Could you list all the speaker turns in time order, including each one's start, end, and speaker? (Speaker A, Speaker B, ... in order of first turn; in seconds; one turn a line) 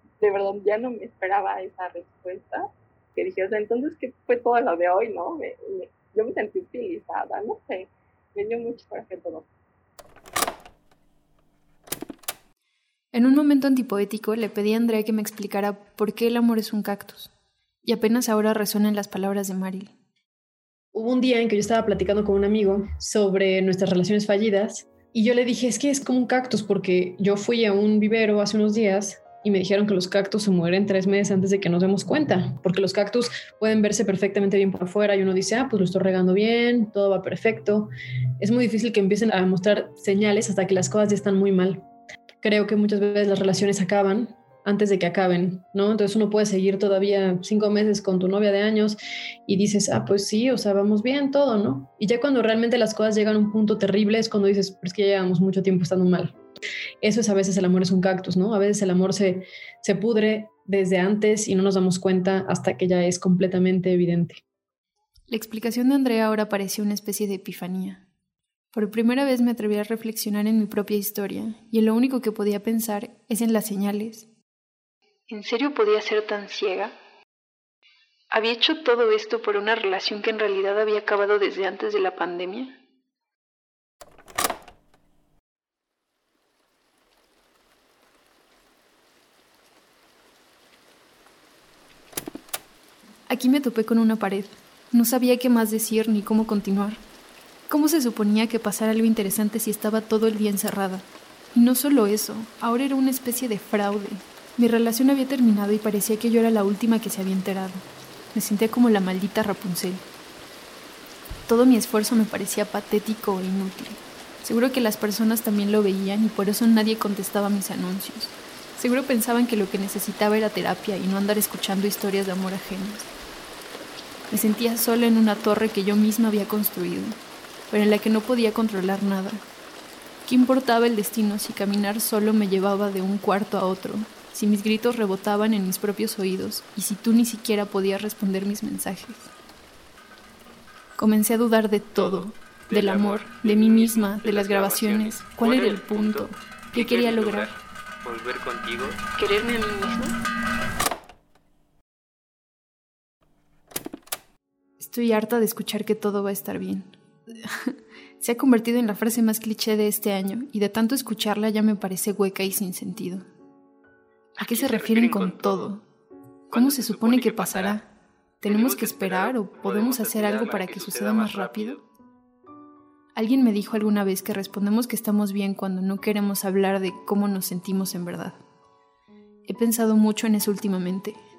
Speaker A: 0.2-9.4
Speaker B: 13.1-17.3
Speaker B: 17.8-19.9
Speaker C: 20.9-41.9
Speaker C: 42.4-56.4
Speaker C: 57.0-64.4
Speaker B: 65.3-68.0
Speaker B: 68.7-74.3
Speaker B: 75.3-76.9
Speaker B: 78.3-82.8
Speaker B: 93.3-97.0
Speaker B: 97.7-110.0
Speaker B: 111.5-123.1
Speaker B: 124.3-127.2
Speaker B: 127.7-129.4
Speaker B: 130.2-139.3
Speaker B: 141.0-147.5
Speaker D: 141.9-149.0
Speaker B: 149.2-150.1
Speaker B: 154.8-163.2
Speaker D: 164.4-165.8
Speaker B: 164.4-165.8
Speaker D: 166.5-167.8
Speaker B: 166.5-167.9
Speaker B: 168.4-171.8
Speaker D: 168.4-171.8
Speaker B: 173.2-178.4
Speaker B: 179.4-181.2